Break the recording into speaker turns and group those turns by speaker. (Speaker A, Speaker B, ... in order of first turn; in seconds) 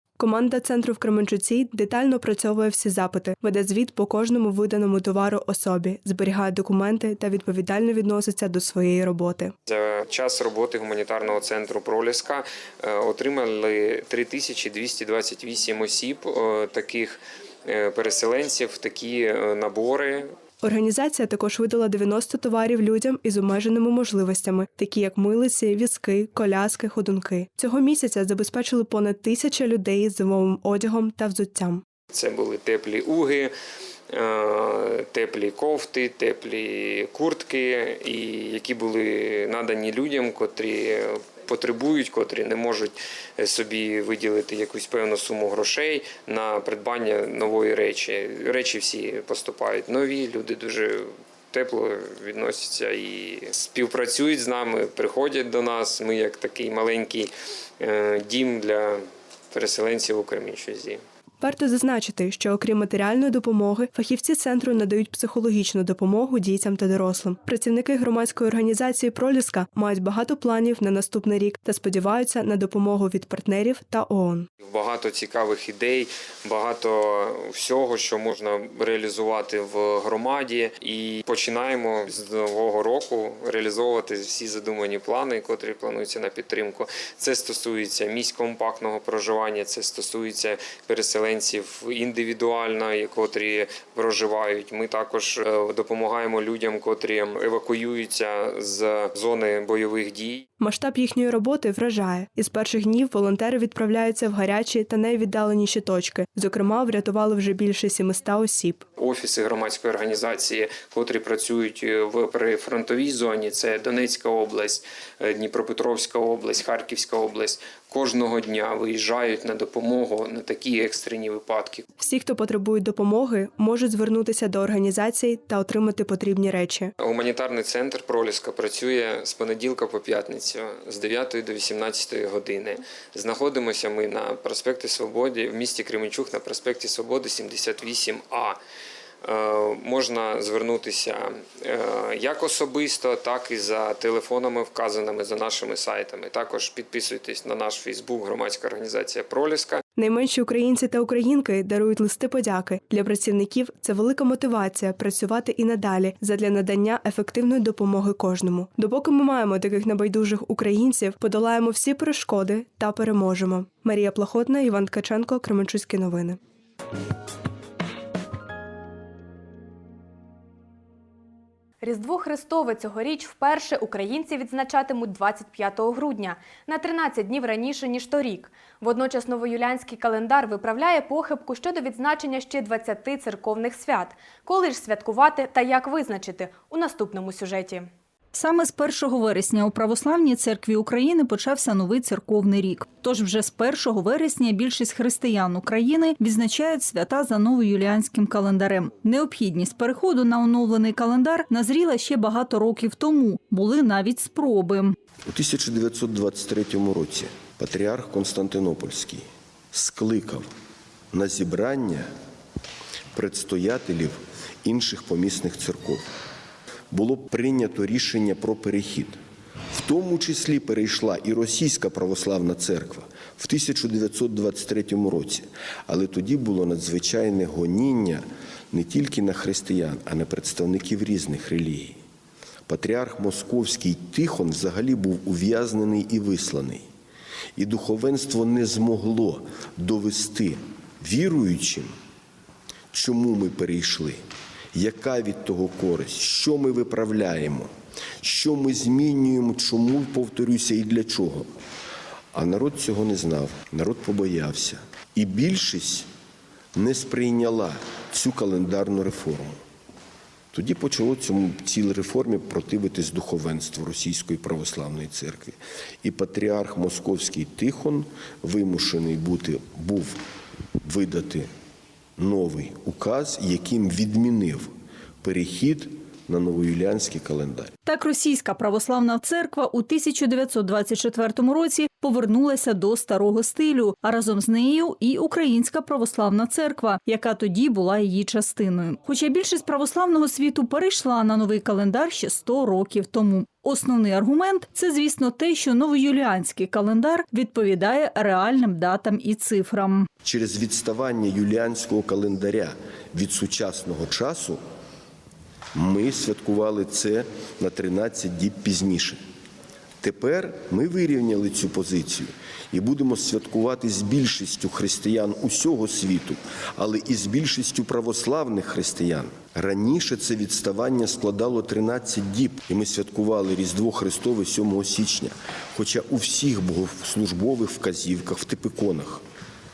Speaker A: 0.2-9.5, 20.6-31.8, 61.4-74.5, 100.6-108.8, 122.0-126.9, 150.0-166.4
Speaker B: 9.7-20.3, 32.1-33.5, 34.1-61.0, 74.6-100.5, 109.0-121.8, 127.0-138.6, 139.2-149.8
Speaker C: 171.8-187.9
Speaker D: 188.3-205.0, 277.9-300.1
Speaker E: 205.3-210.5, 211.1-212.1, 213.2-216.0, 216.9-219.2, 219.7-232.0, 232.7-236.8, 237.6-241.9, 242.9-244.2, 244.7-247.7, 248.2-251.5, 252.3-256.1, 256.8-259.6, 260.5-270.2, 270.8-271.5, 272.2-274.7, 275.2-277.7, 300.2-304.6, 305.8-309.2, 310.0-329.2